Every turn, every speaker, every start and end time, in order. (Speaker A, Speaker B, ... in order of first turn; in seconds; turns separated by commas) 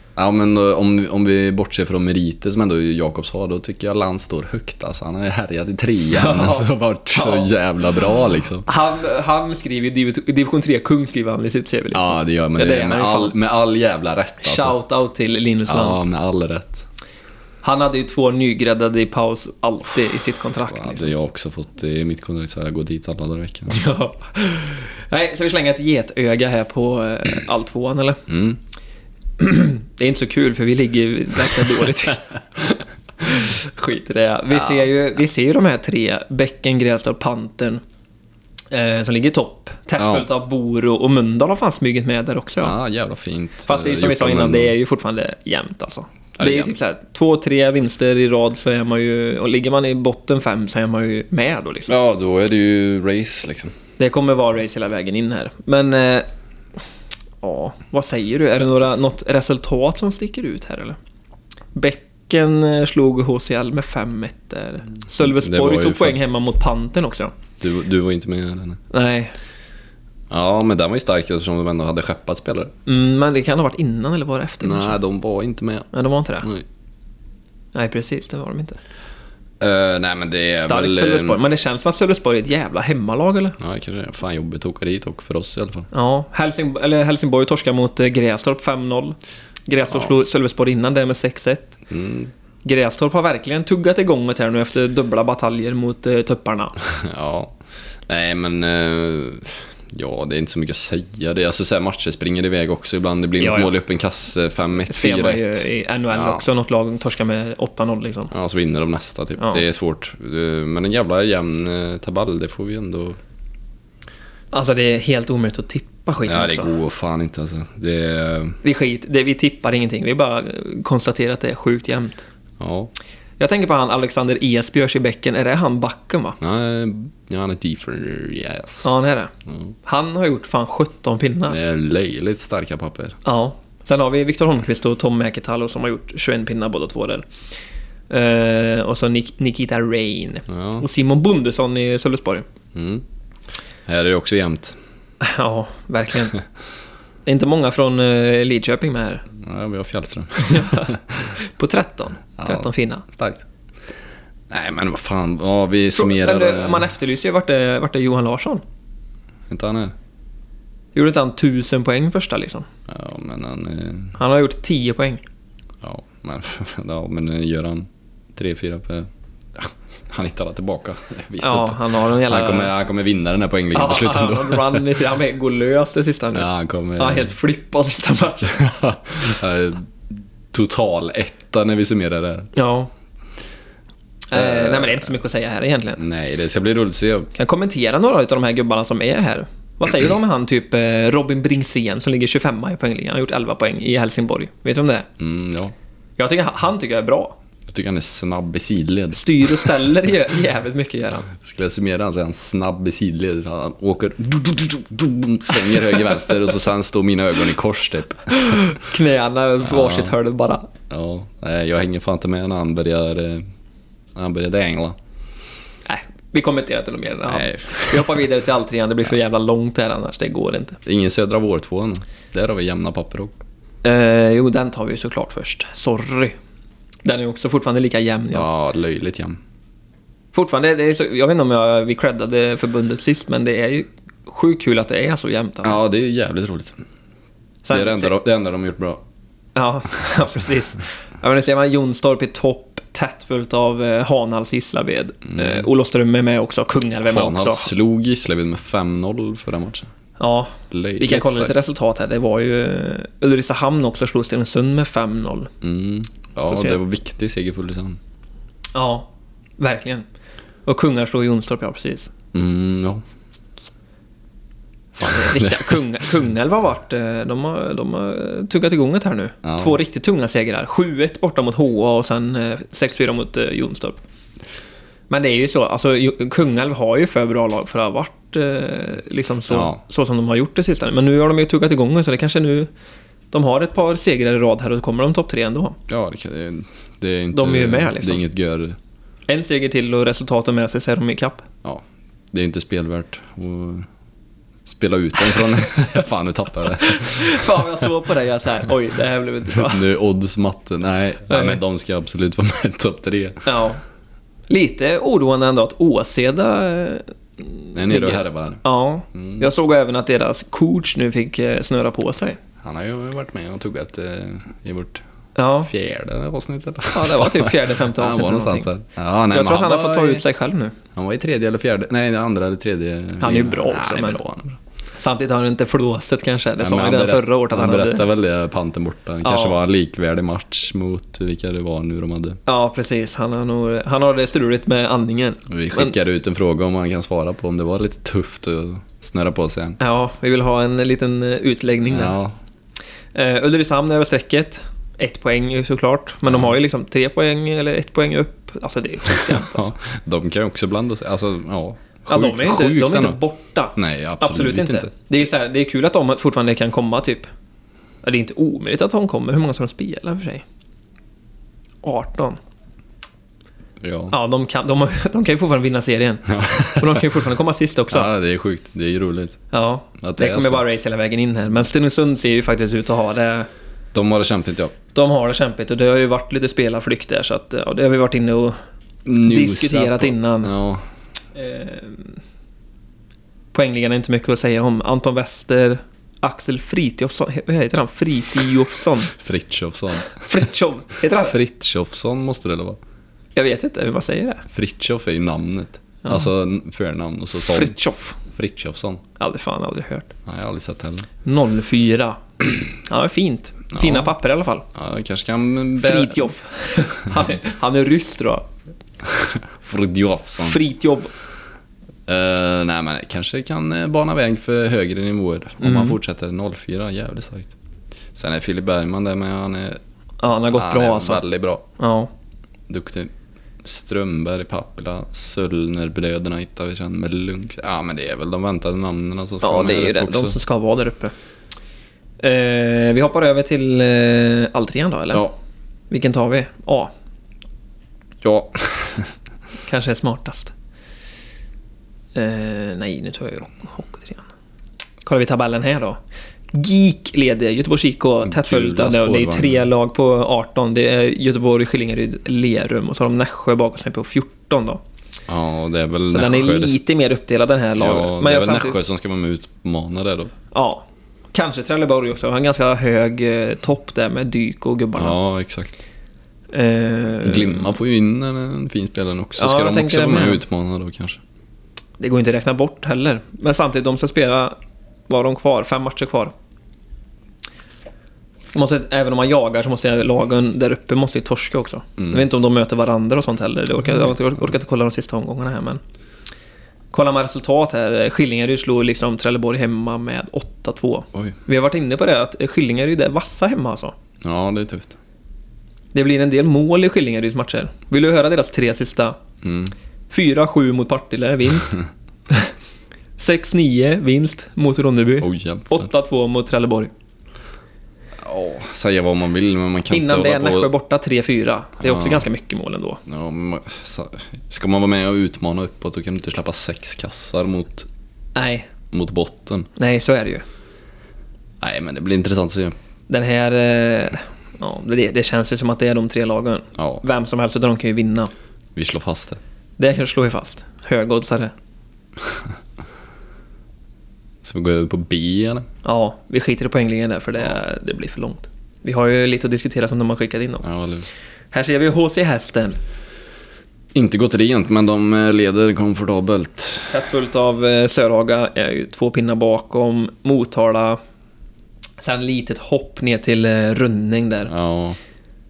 Speaker A: 0.1-8.7, Speaker B: 6.1-7.5, Speaker B: 8.7-13.3, Speaker A: 11.9-14.7, Speaker B: 14.4-16.1, Speaker A: 15.7-16.8, Speaker B: 17.6-21.1, Speaker A: 20.7-23.8, Speaker B: 23.7-28.2, Speaker A: 28.3-28.6, Speaker B: 29.4-37.8, Speaker A: 34.5-34.8, Speaker B: 38.7-42.7, Speaker A: 40.0-40.3, Speaker A: 42.6-44.7, Speaker B: 43.7-51.9, Speaker A: 46.4-46.7, Speaker A: 51.9-53.7, Speaker B: 54.0-56.3, Speaker B: 57.4-61.0, Speaker B: 61.7-67.3, Speaker A: 65.2-66.2, Speaker A: 67.6-68.8, Speaker B: 68.9-69.3, Speaker A: 70.3-72.7, Speaker B: 72.8-75.0, Speaker A: 74.6-75.9, Speaker B: 75.9-76.5, Speaker B: 77.7-78.8, Speaker A: 79.6-81.4, Speaker B: 80.5-83.6, Speaker A: 83.6-85.9, Speaker B: 85.9-89.2, Speaker B: 89.7-91.8, Speaker A: 91.9-92.3, Speaker B: 92.6-96.8, Speaker A: 96.9-106.4, Speaker B: 103.4-103.7, Speaker B: 104.9-108.3, Speaker A: 108.3-113.2, Speaker B: 114.5-116.7, Speaker A: 116.2-118.6, Speaker B: 118.6-122.2, Speaker A: 122.6-122.9, Speaker B: 123.4-126.4, Speaker A: 126.4-128.9, Speaker B: 128.8-129.3, Speaker B: 129.8-131.6, Speaker A: 131.5-133.2, Speaker B: 133.2-137.2, Speaker B: 138.1-142.5, Speaker A: 140.5-140.8, Speaker A: 142.7-143.0, Speaker A: 143.9-144.8, Speaker B: 145.2-146.4, Speaker B: 147.2-149.2, Speaker A: 149.3-151.3, Speaker B: 150.4-153.0, Speaker A: 152.4-153.4, Speaker A: 154.5-156.9, Speaker B: 155.9-158.6, Speaker A: 159.5-159.9, Speaker B: 160.9-162.7, Speaker A: 162.9-164.2, Speaker B: 164.2-165.2, Speaker A: 165.8-175.0, Speaker B: 171.4-172.7, Speaker B: 173.7-178.6, Speaker A: 176.3-177.3, Speaker A: 178.4-179.9, Speaker A: 180.5-182.5, Speaker B: 182.5-182.9, Speaker B: 184.3-186.0, Speaker A: 184.3-185.1, Speaker A: 186.0-187.3, Speaker B: 187.3-195.1, Speaker A: 195.2-195.7, Speaker B: 196.2-197.4, Speaker A: 197.7-199.8, Speaker B: 199.1-201.3, Speaker A: 201.3-208.4, Speaker B: 208.3-210.7, Speaker A: 209.6-210.1, Speaker A: 210.9-213.4, Speaker A: 214.1-215.0, Speaker B: 215.8-220.8, Speaker A: 217.3-218.2, Speaker A: 220.8-223.3, Speaker B: 223.8-226.3, Speaker B: 227.0-228.5, Speaker A: 228.3-229.4, Speaker B: 230.3-235.8, Speaker A: 235.6-236.8, Speaker B: 237.6-238.1, Speaker A: 237.7-239.0, Speaker B: 239.5-247.7, Speaker A: 245.3-245.7, Speaker A: 247.1-249.9, Speaker B: 250.2-255.5, Speaker A: 250.7-251.5, Speaker A: 255.6-258.0, Speaker B: 256.5-256.8, Speaker B: 258.7-260.0, Speaker B: 260.6-262.1, Speaker A: 262.3-263.0, Speaker B: 265.0-274.0, Speaker A: 265.0-265.8, Speaker A: 269.4-269.8, Speaker B: 275.1-282.7, Speaker A: 279.5-279.8, Speaker B: 283.3-285.8, Speaker A: 285.9-288.8, Speaker B: 287.3-288.2, Speaker B: 289.3-291.4, Speaker A: 291.6-293.9, Speaker A: 294.6-297.8, Speaker B: 296.8-299.8, Speaker A: 299.5-303.4, Speaker B: 301.3-301.6, Speaker B: 303.4-303.8, Speaker B: 304.5-312.4, Speaker A: 307.7-308.6, Speaker A: 309.1-309.5, Speaker A: 312.6-315.0, Speaker B: 315.4-315.7, Speaker A: 315.6-320.2, Speaker B: 316.9-318.7, Speaker B: 319.3-320.8, Speaker A: 320.9-324.6, Speaker B: 323.2-324.2, Speaker B: 325.0-328.1, Speaker A: 326.6-332.4, Speaker B: 329.2-329.6, Speaker B: 332.4-335.9, Speaker A: 335.5-339.8, Speaker B: 339.8-342.1, Speaker A: 341.9-342.3, Speaker B: 343.1-349.7, Speaker A: 346.2-346.5, Speaker A: 349.1-353.2, Speaker B: 352.1-357.2, Speaker A: 353.8-354.9, Speaker B: 358.0-360.4, Speaker B: 361.8-362.4, Speaker A: 363.8-364.1, Speaker B: 364.1-368.1, Speaker A: 366.3-367.0, Speaker A: 367.9-369.4, Speaker B: 369.5-373.5, Speaker A: 370.0-370.6, Speaker A: 373.9-374.7, Speaker B: 374.9-378.6, Speaker A: 379.1-380.8, Speaker B: 379.2-380.5, Speaker B: 381.3-382.2, Speaker B: 383.5-389.1, Speaker A: 389.1-390.2, Speaker B: 390.1-391.4, Speaker A: 391.1-392.8, Speaker B: 393.4-394.4, Speaker A: 394.5-397.7, Speaker B: 397.5-398.2, Speaker A: 398.3-399.0, Speaker B: 399.2-400.1, Speaker A: 400.2-401.1, Speaker B: 401.2-404.6, Speaker A: 403.7-404.1, Speaker A: 404.7-406.3, Speaker B: 405.8-408.5, Speaker A: 409.0-410.6, Speaker B: 410.4-411.1, Speaker A: 412.1-417.5, Speaker B: 415.6-416.0, Speaker A: 418.1-419.8, Speaker B: 420.2-421.2, Speaker A: 420.5-421.6, Speaker B: 421.8-422.1, Speaker A: 422.7-430.4, Speaker B: 429.4-431.1, Speaker B: 432.2-435.3, Speaker B: 435.9-436.9, Speaker A: 438.2-439.1, Speaker B: 439.6-440.5, Speaker B: 442.1-444.3, Speaker B: 445.0-446.0, Speaker B: 446.5-454.8, Speaker A: 448.2-449.6, Speaker A: 455.3-456.8, Speaker B: 456.1-458.8, Speaker A: 457.8-460.3, Speaker B: 460.5-465.2, Speaker A: 464.9-465.8, Speaker B: 466.5-467.7, Speaker A: 467.2-471.2, Speaker B: 469.4-470.4, Speaker B: 472.0-474.6, Speaker B: 475.1-476.3, Speaker B: 478.5-485.8, Speaker A: 482.0-482.2, Speaker B: 486.9-493.9, Speaker A: 494.2-495.0, Speaker B: 495.9-499.2, Speaker A: 499.4-499.7, Speaker B: 500.1-502.5, Speaker B: 503.2-506.9, Speaker A: 505.2-505.9, Speaker A: 508.2-510.7, Speaker B: 509.9-513.0, Speaker A: 511.8-512.3, Speaker A: 513.0-517.9, Speaker B: 518.3-518.7, Speaker A: 518.9-519.7, Speaker B: 519.8-520.4, Speaker A: 521.6-522.7, Speaker B: 523.1-528.3, Speaker A: 526.8-527.0, Speaker A: 528.7-529.4, Speaker B: 529.8-531.5, Speaker A: 534.4-535.6, Speaker B: 535.8-540.6, Speaker A: 540.6-541.1, Speaker B: 541.5-542.8, Speaker A: 543.9-547.0, Speaker B: 546.9-551.0, Speaker B: 552.0-554.5, Speaker A: 554.5-555.0